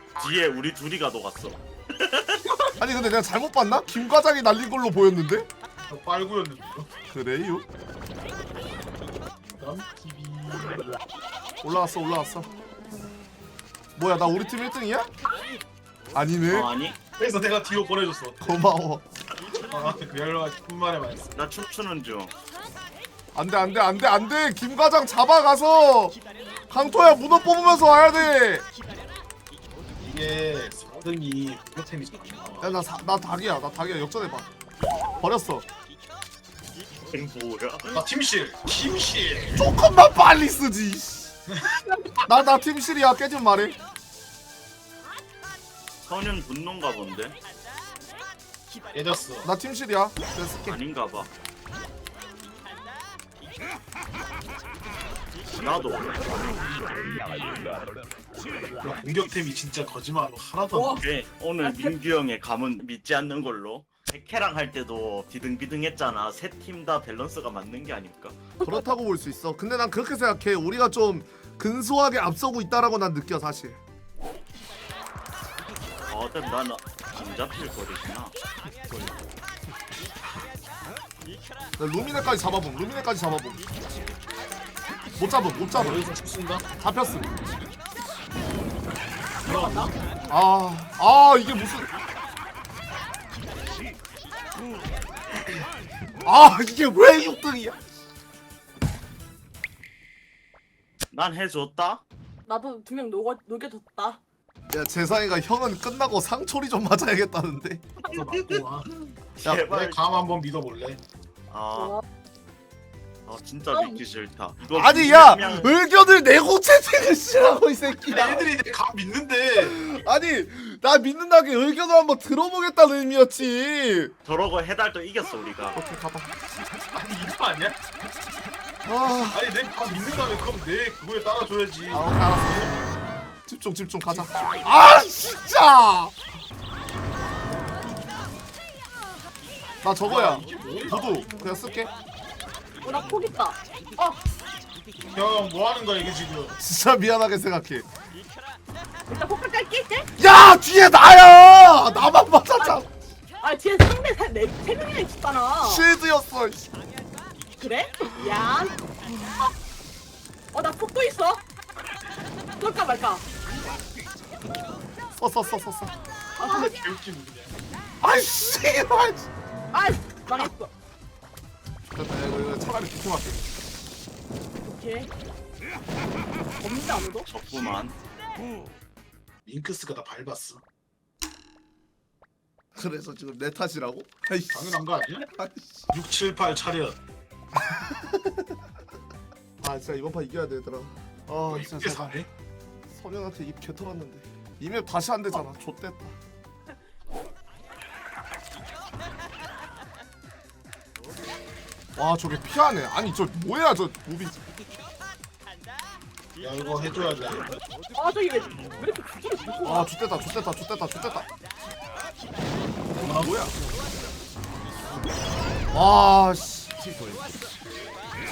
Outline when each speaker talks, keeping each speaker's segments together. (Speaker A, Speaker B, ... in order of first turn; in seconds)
Speaker A: 0.2-2.7, 16.5-17.0, 21.3-22.3, 37.1-38.0, 46.1-47.4, 50.6-51.3, 55.6-56.4, 61.0-68.4, 76.1-78.3, 101.1-102.0, 109.3-110.0, 111.5-112.0, 113.3-115.8, 124.2-125.8, 177.2-178.0
Speaker B: 2.8-5.5, 7.1-7.7, 11.6-12.5, 14.0-15.1, 16.1-16.7, 18.4-19.1, 23.4-26.2, 26.7-28.7, 32.6-34.5, 35.2-35.7, 39.6-41.4, 42.3-43.8, 49.4-50.8, 68.6-73.8, 81.8-83.6, 85.2-86.0, 86.8-87.3, 90.3-91.9, 96.2-97.8, 104.7-107.9, 114.7-118.5, 119.6-124.1, 125.7-126.3, 128.8-129.5, 131.9-132.8, 133.5-136.2, 139.8-141.9, 146.6-147.9, 150.2-152.9, 155.6-156.7, 165.2-165.9, 168.0-169.3, 171.9-173.4, 182.8-185.9, 187.6-188.6, 189.6-192.3, 192.9-196.2, 202.0-204.4, 209.6-211.3, 213.0-213.5, 215.7-216.7
Speaker C: 5.8-6.9, 9.4-11.0, 17.2-18.6, 19.5-21.4, 30.0-32.8, 37.9-39.7, 41.5-41.8, 48.9-49.5, 58.8-61.1, 85.7-86.7, 89.4-89.9, 108.0-108.9, 109.7-111.0, 118.1-119.8, 126.9-127.8, 129.3-132.1, 140.0-141.2, 145.1-146.6, 166.4-167.5, 179.4-180.6, 184.5-185.3, 185.9-187.0, 191.4-192.3, 206.4-207.5, 212.9-213.5
Speaker D: 60.7-61.0, 61.6-62.0, 68.6-68.9, 89.4-89.9, 102.5-104.2, 111.8-112.0, 113.7-114.0, 142.8-144.2, 149.1-150.1, 152.6-152.8, 153.4-155.9, 157.6-158.8, 160.5-161.4, 162.6-163.2, 166.4-166.8, 169.7-170.7, 174.6-175.1, 176.6-177.3, 207.9-209.9